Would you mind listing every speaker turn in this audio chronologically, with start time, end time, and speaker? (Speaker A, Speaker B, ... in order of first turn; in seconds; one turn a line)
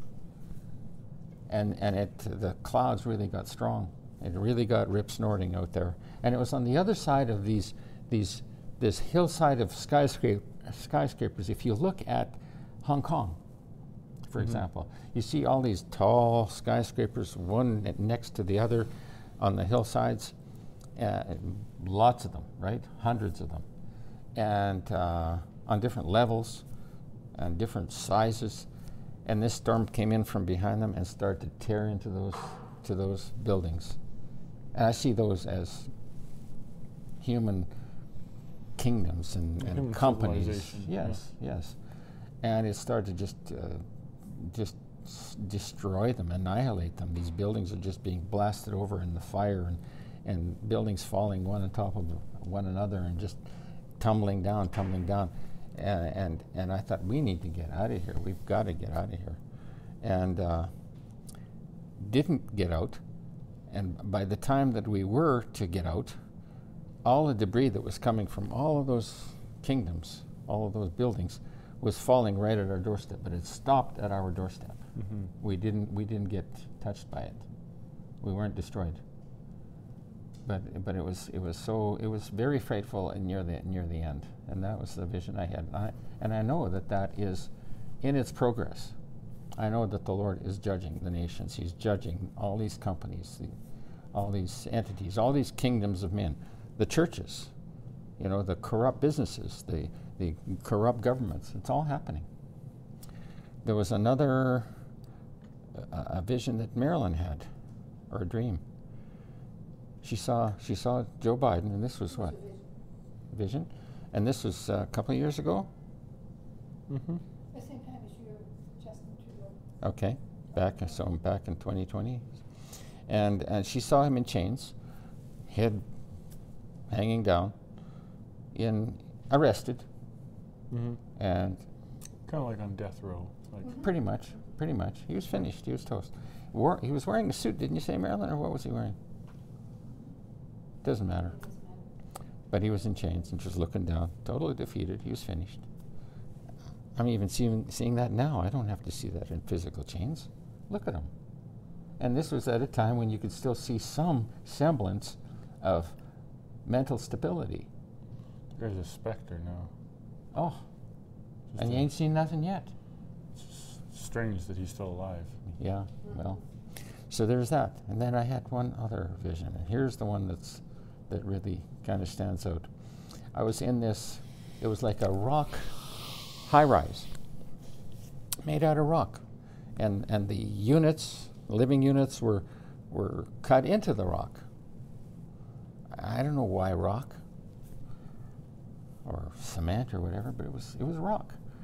Speaker A: 1.5-13.4
Speaker A: 14.3-20.4
Speaker A: 21.0-23.6
Speaker A: 24.4-26.6
Speaker A: 27.4-28.7
Speaker A: 29.2-34.0
Speaker A: 34.7-35.9
Speaker A: 37.2-37.7
Speaker A: 38.8-41.8
Speaker B: 39.6-41.2
Speaker A: 42.4-53.4
Speaker A: 54.0-59.4
Speaker A: 60.0-60.7
Speaker A: 62.0-63.0
Speaker A: 63.7-66.2
Speaker A: 67.0-74.8
Speaker B: 75.0-75.3
Speaker A: 75.4-77.4
Speaker A: 78.2-79.0
Speaker A: 80.5-87.5
Speaker A: 88.0-89.0
Speaker A: 89.6-93.5
Speaker A: 94.1-97.5
Speaker A: 98.2-102.3
Speaker A: 103.6-104.7
Speaker A: 105.8-107.5
Speaker A: 108.1-108.6
Speaker A: 110.0-112.4
Speaker C: 112.2-112.6
Speaker A: 113.3-115.7
Speaker B: 116.9-117.2
Speaker C: 117.5-119.6
Speaker A: 119.8-122.3
Speaker A: 123.1-124.8
Speaker A: 125.5-125.8
Speaker A: 126.9-127.5
Speaker A: 128.5-129.8
Speaker B: 130.7-131.0
Speaker A: 131.2-131.6
Speaker B: 132.3-133.7
Speaker A: 133.7-139.0
Speaker A: 140.8-141.4
Speaker C: 141.3-141.8
Speaker A: 142.5-145.6
Speaker A: 147.0-151.1
Speaker A: 152.0-155.9
Speaker A: 156.7-157.7
Speaker B: 158.6-159.7
Speaker A: 160.3-160.6
Speaker B: 161.5-161.9
Speaker A: 161.6-162.7
Speaker B: 163.4-165.3
Speaker A: 165.6-166.4
Speaker A: 167.1-172.7
Speaker A: 173.3-175.8
Speaker A: 176.4-177.1
Speaker A: 178.4-179.2
Speaker A: 179.8-184.4
Speaker A: 185.9-187.2
Speaker A: 189.1-191.4